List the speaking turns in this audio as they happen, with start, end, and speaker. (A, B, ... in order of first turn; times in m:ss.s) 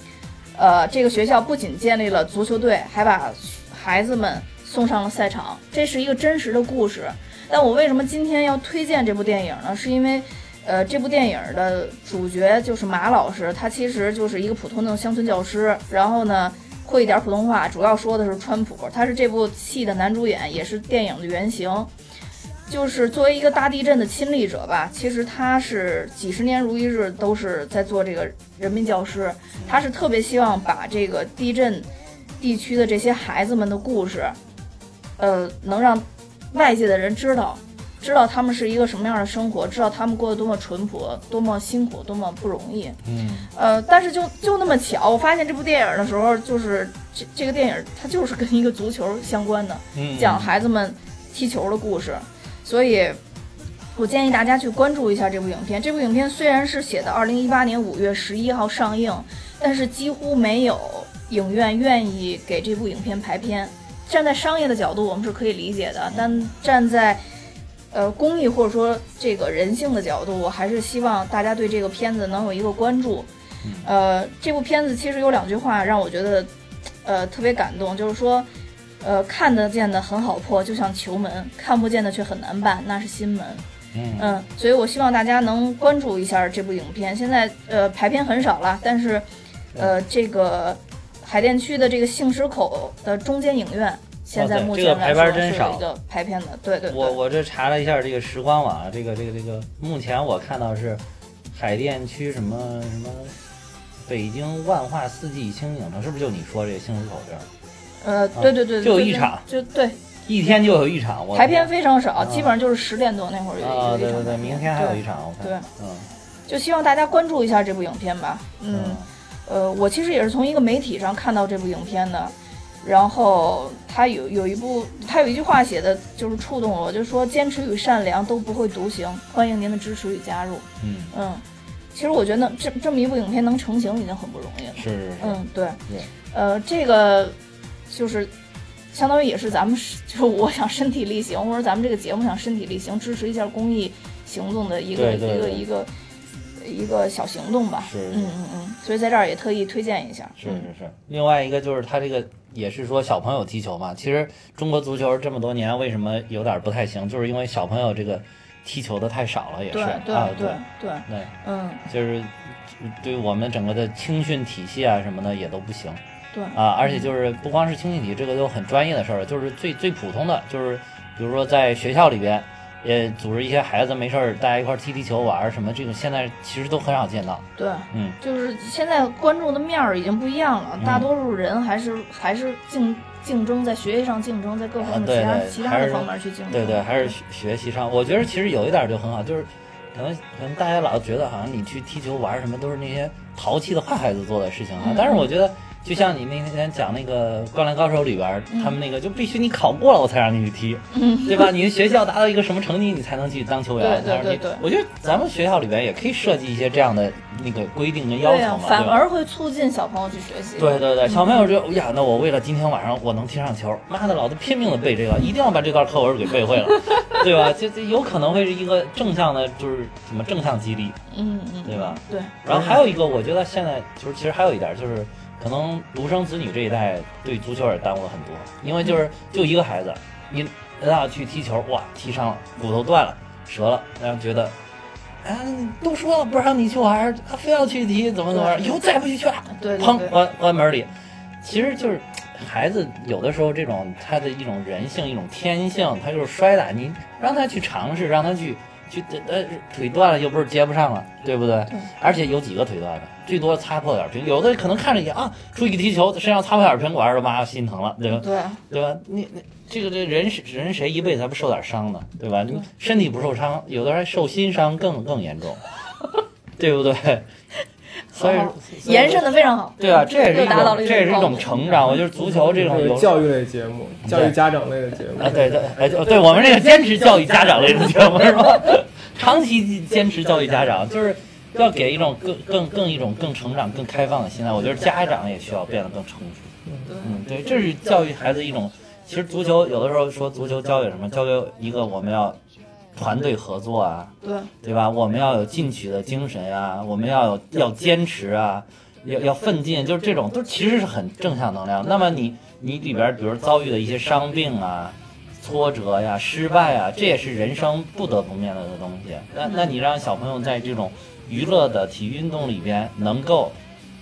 0:00.5-0:21.9 A
0:22.7-0:31.9 A
0:32.4-0:34.4 A
0:35.2-0:43.0 A
0:43.0-0:43.5 B
0:43.5-0:53.2 A
0:49.9-0:50.5 B
0:54.0-1:07.2 A
1:06.1-1:06.4 B
1:07.9-1:13.3 A
1:13.8-1:16.5 A
1:17.0-1:18.5 A
1:19.0-1:23.6 A
1:23.9-1:24.4 B
1:24.2-1:37.2 A
1:34.3-1:35.8 B
1:36.9-1:41.0 B
1:41.5-1:43.4 B
1:44.0-1:47.5 B
1:48.0-1:50.0 A
1:48.3-1:49.4 B
1:50.2-1:52.5 B
1:51.3-1:55.7 A
1:53.6-1:56.1 B
1:56.5-2:11.4 A
1:58.7-1:59.1 B
2:10.8-2:11.1 B
2:11.9-2:15.8 A
2:14.7-2:16.1 B
2:16.3-2:17.4 A
2:17.9-2:18.3 A
2:18.9-2:25.9 A
2:24.9-2:25.6 B
2:26.6-2:30.7 A
2:27.8-2:28.3 B
2:30.4-2:41.3 B
2:39.7-2:41.8 A
2:41.8-2:46.0 B
2:46.3-2:47.1 A
2:46.5-2:58.2 B
2:57.6-3:07.1 A
3:00.8-3:01.1 B
3:04.8-3:29.0 B
3:14.8-3:15.3 A
3:18.5-3:18.8 A
3:20.9-3:21.5 A
3:23.8-3:24.6 A
3:28.2-3:31.5 A
3:30.6-3:41.0 B
3:41.1-3:42.4 A
3:41.6-3:54.5 B
3:55.2-4:00.9 B
3:58.3-3:58.8 A
3:59.5-4:00.2 A
4:01.4-4:25.6 B
4:11.7-4:11.9 A
4:18.2-4:18.6 A
4:26.6-4:27.2 B
4:28.1-4:31.7 A
4:28.1-4:33.1 B
4:32.2-4:35.6 C
4:34.0-4:34.4 B
4:35.2-4:52.4 B
4:46.8-4:47.2 A
4:52.9-5:13.6 B
4:54.2-4:54.5 A